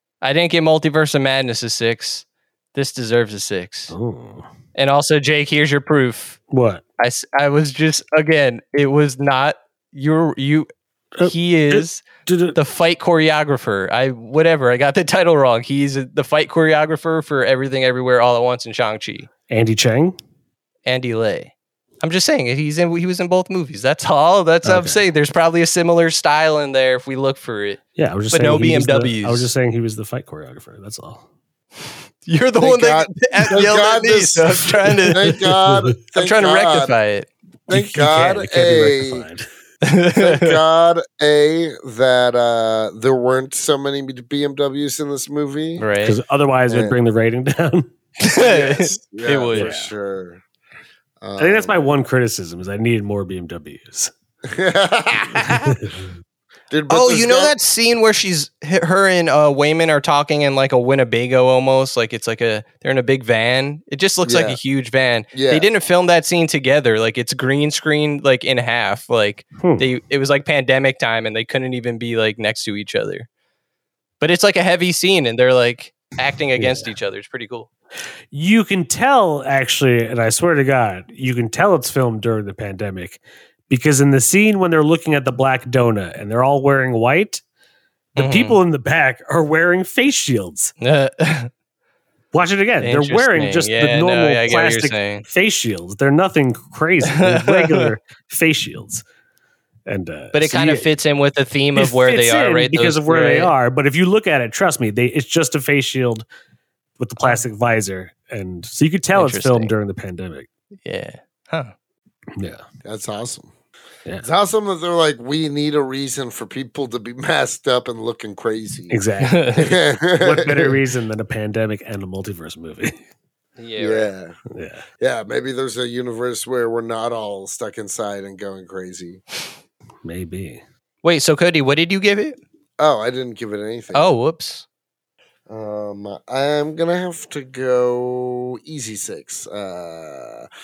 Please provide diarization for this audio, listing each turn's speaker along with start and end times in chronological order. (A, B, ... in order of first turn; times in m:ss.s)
0:00.2-0:03.9 A
0:03.9-0:04.5 B
0:04.7-0:06.4 A
0:06.5-0:06.8 B
0:07.0-0:10.7 A
0:11.2-0:12.6 B
0:11.2-0:12.0 A
0:12.5-0:19.3 A
0:19.5-0:20.2 B
0:20.8-0:27.8 A
0:24.6-0:25.0 B
0:28.0-0:31.2 B
0:28.3-0:29.5 A
0:32.2-0:35.3 A
0:32.6-0:36.9 C
0:35.1-0:35.9 B
0:36.2-0:37.3 A
0:37.7-0:39.2 C
0:37.7-0:39.4 B
0:39.8-0:40.6 A
0:40.2-0:45.8 C
0:45.8-0:46.2 A
0:46.0-0:47.9 B
0:46.7-0:47.0 C
0:48.2-0:49.7 A
0:48.3-0:50.4 C
0:49.5-0:49.9 B
0:51.2-0:51.8 C
0:51.4-0:54.1 B
0:54.4-0:55.8 C
0:55.6-0:56.0 B
0:56.7-0:57.5 C
0:56.9-1:13.3 A
1:04.2-1:04.6 C
1:05.3-1:05.7 C
1:09.6-1:09.9 B
1:14.2-1:17.7 A
1:16.6-1:16.9 B
1:18.3-1:27.4 B
1:28.2-1:28.6 A
1:28.2-1:30.7 B
1:30.8-1:31.5 A
1:32.3-1:39.0 B
1:32.8-1:35.2 A
1:37.1-1:37.9 A
1:39.9-1:40.9 B
1:40.3-1:43.5 A
1:41.7-1:46.2 B
1:47.0-1:50.5 B
1:49.1-1:49.7 A
1:50.8-1:51.7 A
1:52.4-1:52.6 B
1:52.8-1:53.5 C
1:54.2-1:59.0 C
1:58.9-2:03.0 B
1:59.2-1:59.7 A
1:59.6-2:00.8 C
2:03.6-2:04.1 A
2:03.8-2:04.4 C
2:04.5-2:04.8 B
2:05.0-2:09.2 C
2:10.0-2:10.6 B
2:11.0-2:12.4 A
2:12.8-2:14.1 C
2:13.9-2:14.6 A
2:15.5-2:20.5 C